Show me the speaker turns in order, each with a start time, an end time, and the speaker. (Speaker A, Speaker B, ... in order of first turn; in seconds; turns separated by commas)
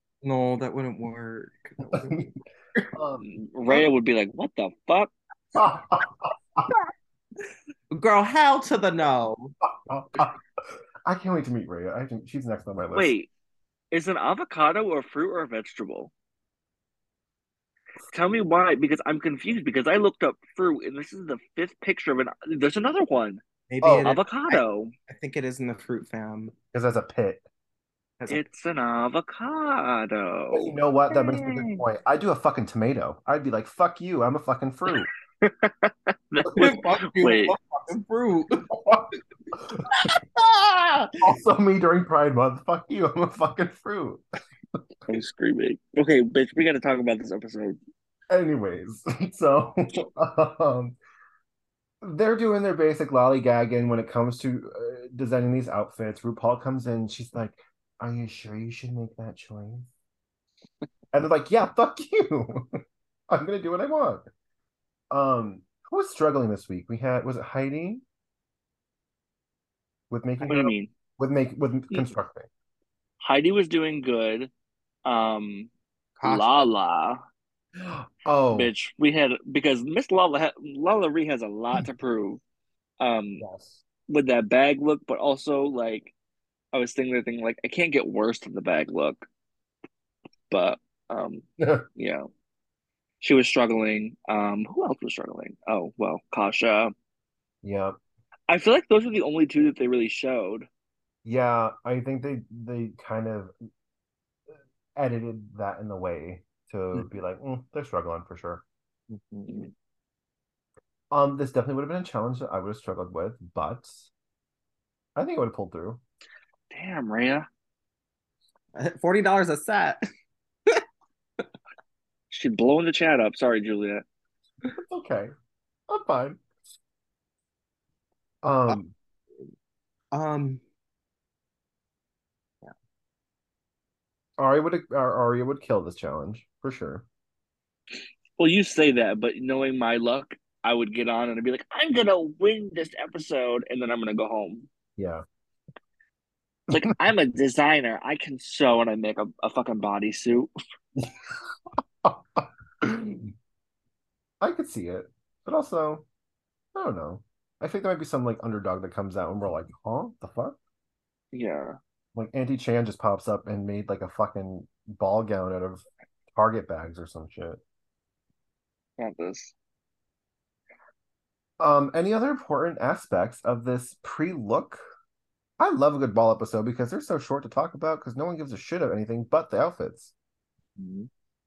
Speaker A: 0.2-2.9, Speaker B: 2.9-3.2, Speaker C: 3.2-5.1, Speaker B: 5.5-6.7, Speaker A: 7.9-9.5, Speaker B: 9.8-10.4, Speaker B: 11.1-13.1, Speaker C: 12.9-13.3, Speaker C: 13.9-16.1, Speaker C: 18.1-23.4, Speaker A: 23.7-26.5, Speaker B: 23.8-24.1, Speaker C: 24.0-24.9, Speaker B: 26.7-27.4, Speaker C: 28.3-30.7, Speaker B: 30.5-35.1, Speaker C: 35.4-37.5, Speaker A: 36.5-38.8, Speaker B: 38.7-39.8, Speaker A: 39.9-41.2, Speaker B: 41.2-44.2, Speaker C: 45.1-47.8, Speaker B: 48.3-51.0, Speaker B: 52.0-59.9, Speaker B: 61.1-62.8, Speaker B: 63.3-64.2, Speaker B: 65.1-68.0, Speaker B: 70.1-72.5, Speaker C: 70.5-70.9, Speaker C: 73.2-74.5, Speaker C: 75.0-75.7, Speaker A: 76.2-76.7, Speaker C: 76.2-77.2, Speaker B: 77.8-78.7, Speaker C: 78.5-82.4, Speaker C: 83.0-83.4, Speaker B: 83.4-83.8, Speaker C: 84.1-86.1, Speaker C: 86.7-89.2, Speaker C: 90.5-92.3, Speaker B: 91.6-91.8, Speaker C: 93.2-96.9, Speaker B: 97.6-98.0, Speaker C: 98.5-100.7, Speaker B: 101.2-103.5, Speaker B: 104.9-108.6, Speaker A: 109.1-109.7, Speaker B: 111.1-114.1, Speaker B: 115.2-116.0, Speaker C: 116.7-117.5, Speaker A: 118.7-120.0, Speaker C: 122.3-124.0, Speaker B: 124.7-125.3, Speaker B: 125.9-126.4, Speaker B: 128.4-128.9, Speaker A: 130.1-130.6, Speaker B: 134.4-137.0, Speaker C: 138.4-144.7, Speaker B: 145.0-145.2, Speaker C: 146.7-150.5, Speaker B: 152.0-153.3, Speaker B: 154.4-156.0, Speaker B: 156.7-160.6, Speaker C: 161.3-161.8, Speaker B: 162.1-167.6, Speaker C: 169.0-169.5, Speaker B: 171.6-174.8, Speaker B: 175.6-180.1, Speaker A: 180.8-181.1